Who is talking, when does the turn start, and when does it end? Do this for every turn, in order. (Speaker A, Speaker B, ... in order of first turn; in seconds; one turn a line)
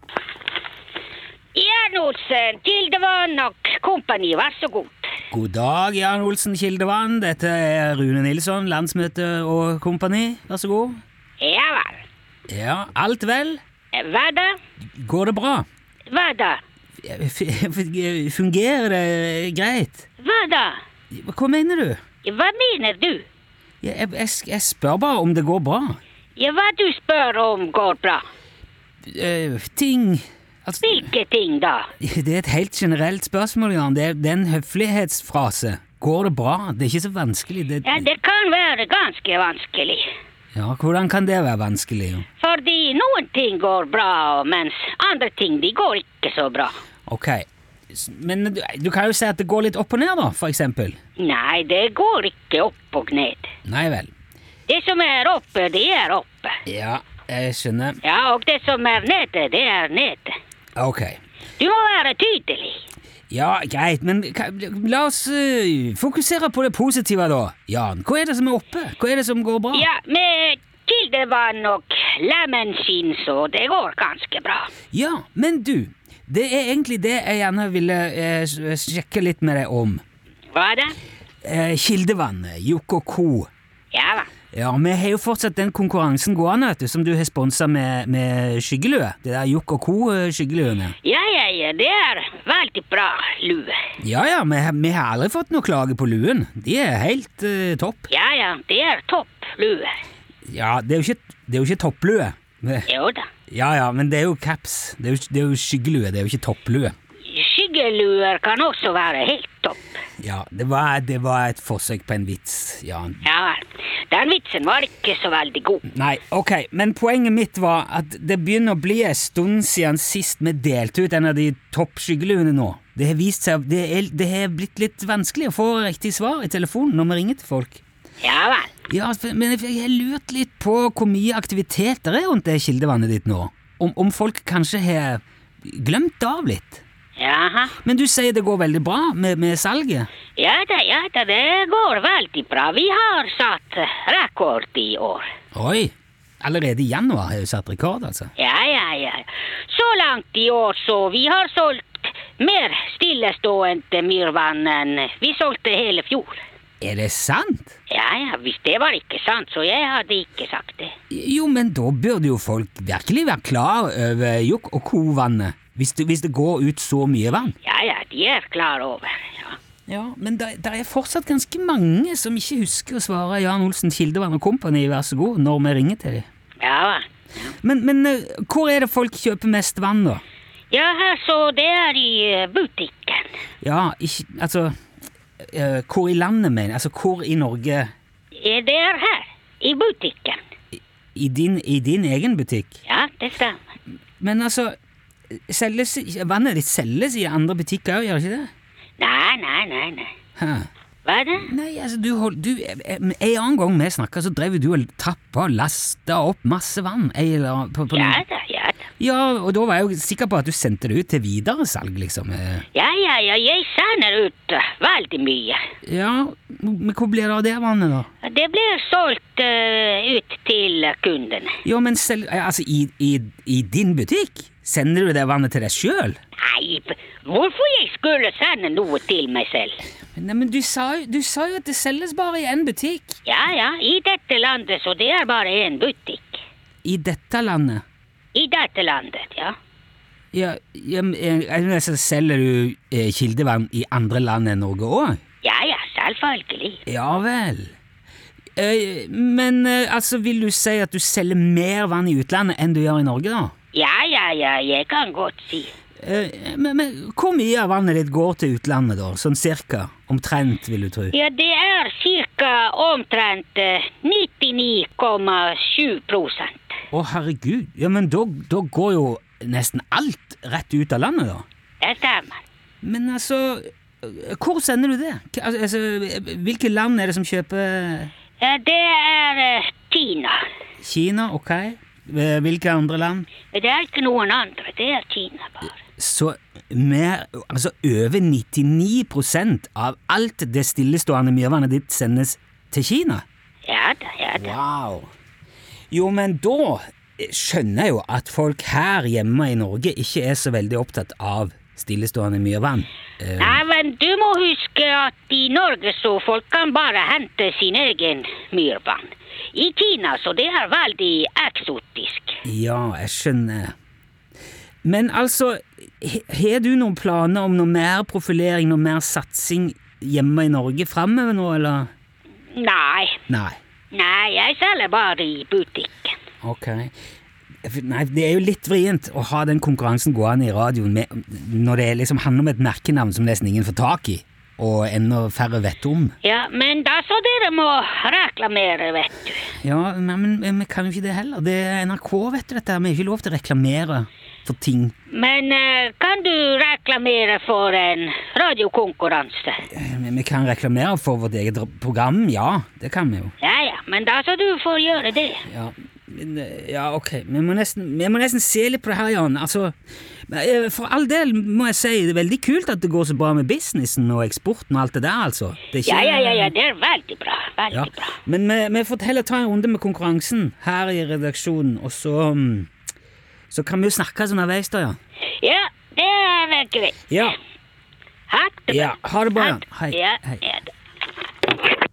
Speaker A: 1.6-5.1
Speaker B: 5.3-11.0
Speaker A: 11.4-12.1
Speaker B: 12.5-13.6
Speaker A: 13.9-14.6
Speaker B: 15.0-15.7
Speaker A: 16.1-16.6
Speaker B: 17.0-20.1
Speaker A: 20.2-20.8
Speaker B: 21.1-22.0
Speaker A: 22.2-23.2
Speaker B: 23.8-26.0
Speaker A: 26.4-28.2
Speaker B: 29.1-31.1
Speaker A: 30.8-31.9
Speaker B: 32.0-38.1
Speaker A: 37.8-40.0
Speaker B: 40.5-42.3
Speaker A: 42.4-46.8
Speaker B: 47.1-51.0
Speaker A: 51.2-53.5
Speaker B: 53.6-54.1
Speaker A: 54.7-56.6
Speaker B: 56.7-58.0
Speaker A: 58.0-60.3
Speaker B: 60.8-61.2
Speaker A: 61.6-62.8
Speaker B: 63.3-69.9
Speaker A: 69.7-74.7
Speaker B: 74.9-80.0
Speaker A: 80.5-81.0
Speaker B: 81.4-83.5
Speaker A: 83.9-84.3
Speaker B: 84.5-91.0
Speaker A: 91.0-93.7
Speaker B: 94.0-98.1
Speaker A: 98.1-100.0
Speaker B: 100.5-102.9
Speaker A: 102.9-103.3
Speaker B: 103.5-107.0
Speaker A: 107.3-109.8
Speaker B: 110.2-113.2
Speaker A: 113.2-115.8
Speaker B: 115.9-127.8
Speaker A: 128.2-128.7
Speaker B: 128.9-136.8
Speaker A: 137.2-137.8
Speaker B: 137.8-140.1
Speaker A: 140.4-145.3
Speaker B: 145.5-148.3
Speaker A: 148.4-156.4
Speaker B: 156.8-157.8
Speaker A: 157.9-160.9
Speaker B: 161.1-167.6
Speaker A: 167.6-169.6
Speaker B: 169.9-176.3
Speaker A: 176.6-177.1
Speaker B: 177.6-180.2
Speaker A: 180.7-183.3
Speaker B: 183.6-184.7
Speaker B: 185.4-187.9
Speaker A: 188.4-190.4
Speaker B: 191.2-192.8
Speaker A: 192.9-193.6
Speaker B: 194.2-194.7
Speaker B: 195.3-198.5
Speaker A: 199.0-200.1
Speaker B: 200.4-200.7
Speaker A: 201.1-201.5
Speaker B: 201.4-208.2
Speaker A: 207.9-208.9
Speaker B: 209.0-212.7
Speaker A: 212.7-215.6
Speaker B: 215.8-218.1
Speaker A: 218.2-221.6
Speaker B: 221.6-226.2
Speaker A: 226.4-229.8
Speaker B: 230.2-233.2
Speaker A: 233.3-236.4
Speaker B: 236.8-237.8
Speaker A: 238.3-239.6
Speaker B: 240.3-245.2
Speaker A: 245.4-246.8
Speaker B: 246.9-247.7
Speaker B: 248.6-253.5
Speaker A: 253.7-255.7
Speaker B: 256.0-261.1
Speaker A: 261.1-266.7
Speaker B: 266.9-271.4
Speaker A: 271.8-272.4
Speaker B: 272.8-278.1
Speaker A: 278.4-280.4
Speaker B: 280.8-283.3
Speaker A: 283.5-285.8
Speaker B: 286.0-293.2
Speaker A: 293.7-294.6
Speaker B: 294.4-295.1
Speaker B: 295.9-303.6
Speaker A: 303.4-312.4
Speaker B: 312.4-313.7
Speaker B: 314.8-321.9
Speaker A: 322.6-323.2
Speaker B: 323.3-323.6
Speaker A: 323.9-326.2
Speaker B: 326.4-326.9
Speaker B: 327.6-336.2
Speaker A: 336.2-339.5
Speaker B: 339.6-344.9
Speaker A: 345.1-349.6
Speaker B: 349.7-353.3
Speaker A: 353.4-355.4
Speaker B: 355.5-359.8
Speaker B: 360.3-366.5
Speaker A: 365.9-368.2
Speaker B: 367.7-372.7
Speaker B: 373.5-375.0
Speaker A: 375.4-377.0
Speaker B: 377.1-377.4
Speaker A: 378.3-380.7
Speaker B: 378.7-380.4